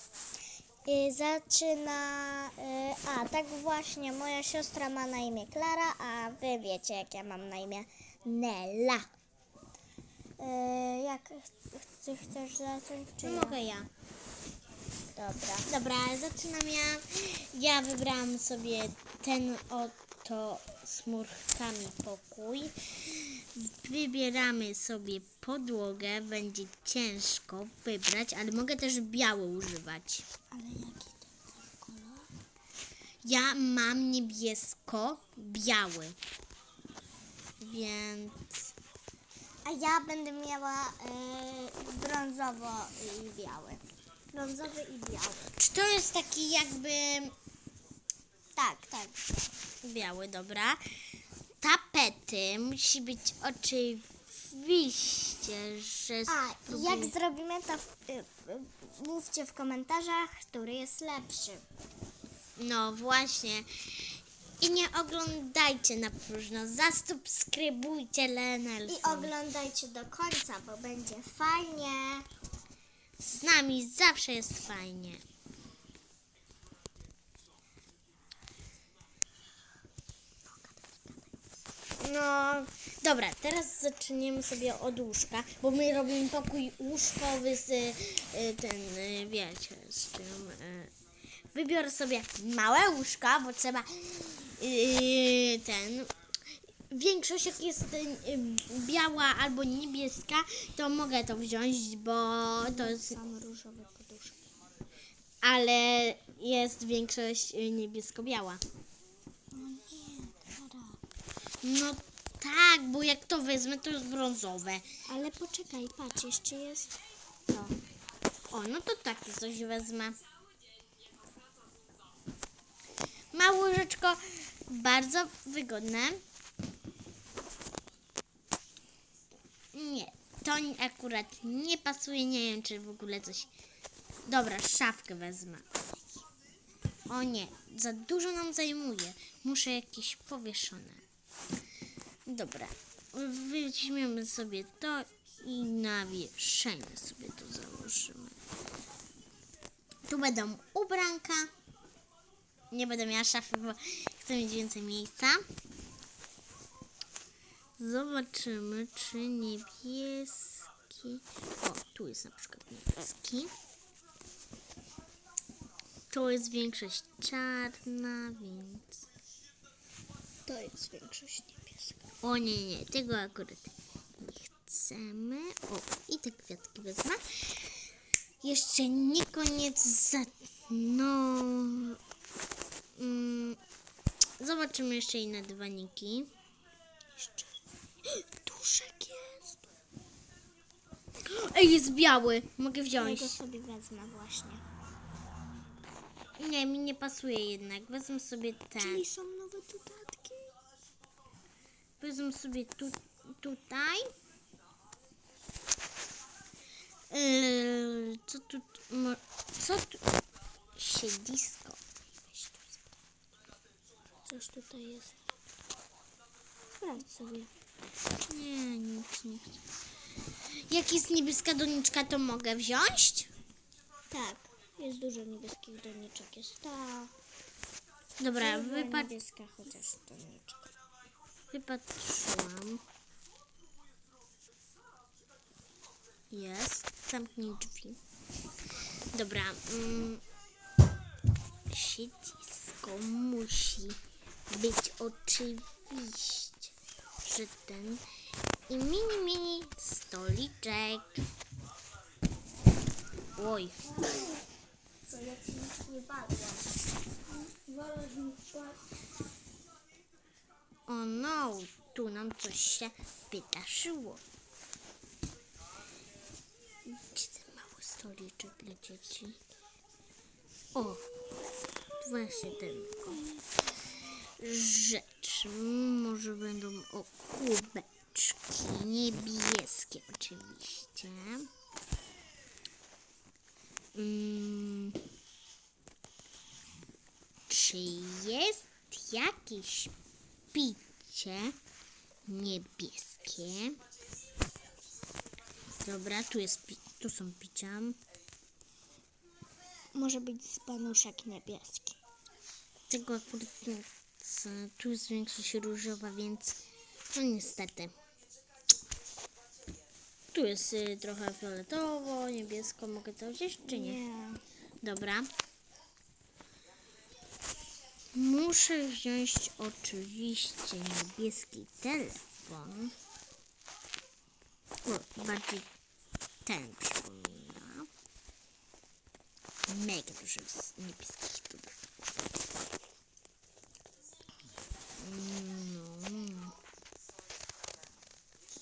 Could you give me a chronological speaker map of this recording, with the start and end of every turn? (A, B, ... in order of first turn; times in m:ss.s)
0:00.8-0:09.1 A
0:10.4-0:13.6 A
0:13.2-0:13.9 B
0:15.2-0:15.7 A
0:15.6-0:30.3 B
0:30.5-0:32.3 A
0:33.2-0:36.2 B
0:37.6-0:38.5 B
0:39.6-0:45.6 A
0:45.6-0:47.3 B
0:48.6-0:49.5 A
0:49.8-0:50.8 B
0:51.6-0:57.1 B
0:56.3-1:01.6 A
1:02.6-1:09.3 B
1:08.9-1:12.2 A
1:13.2-1:15.2 B
1:20.6-1:21.3 A
1:22.0-1:30.9 B
1:31.5-1:36.1 B
1:36.9-1:43.2 B
1:42.6-1:44.5 A
1:45.4-1:48.6 B
1:49.5-1:51.0 A
1:51.6-1:54.9 B
1:55.1-1:56.9 A
1:57.5-1:57.7 B
1:58.5-2:00.2 B
2:03.3-2:06.2 B
2:09.7-2:13.5 B
2:14.2-2:15.6 B
2:17.1-2:21.0 B
2:22.2-2:28.4 B
2:30.0-2:31.5 B
2:32.7-2:35.4 B
2:37.8-2:43.5 B
2:46.1-2:49.0 B
2:50.5-2:52.0 A
2:52.2-2:57.7 B
2:58.4-3:02.0 B
3:03.0-3:03.6 B
3:04.4-3:06.3 B
3:07.2-3:07.5 A
3:08.0-3:09.6 A
3:11.2-3:13.4 B
3:13.0-3:14.6 A
3:16.4-3:19.0 B
3:18.8-3:20.5 A
3:22.0-3:24.1 B
3:27.1-3:30.0 B
3:30.8-3:31.8 B
3:34.3-3:35.1 A
3:36.8-3:37.5 A
3:38.2-3:39.6 B
3:40.5-3:43.3 B
3:44.1-3:47.1 A
3:48.2-3:49.1 B
3:48.4-3:50.7 A
3:51.5-3:52.8 B
3:56.3-3:58.0 B
3:59.1-4:00.2 B
4:01.7-4:08.0 B
4:08.7-4:11.2 B
4:13.3-4:13.8 B
4:13.9-4:14.4 A
4:15.0-4:16.7 A
4:17.4-4:18.8 A
4:20.9-4:24.2 B
4:26.8-4:29.4 B
4:30.7-4:31.0 B
4:32.0-4:33.2 B
4:34.4-4:41.5 B
4:43.9-4:45.0 B
4:47.5-4:49.9 B
4:50.5-4:51.6 B
4:52.2-4:53.8 B
4:55.8-4:58.0 B
4:59.9-5:02.0 A
5:02.9-5:06.6 B
5:07.1-5:07.9 B
5:10.3-5:14.0 B
5:13.7-5:14.4 A
5:14.8-5:15.3 B
5:18.1-5:23.0 B
5:24.8-5:25.7 B
5:26.4-5:27.9 B
5:29.7-5:31.7 B
5:35.0-5:36.6 B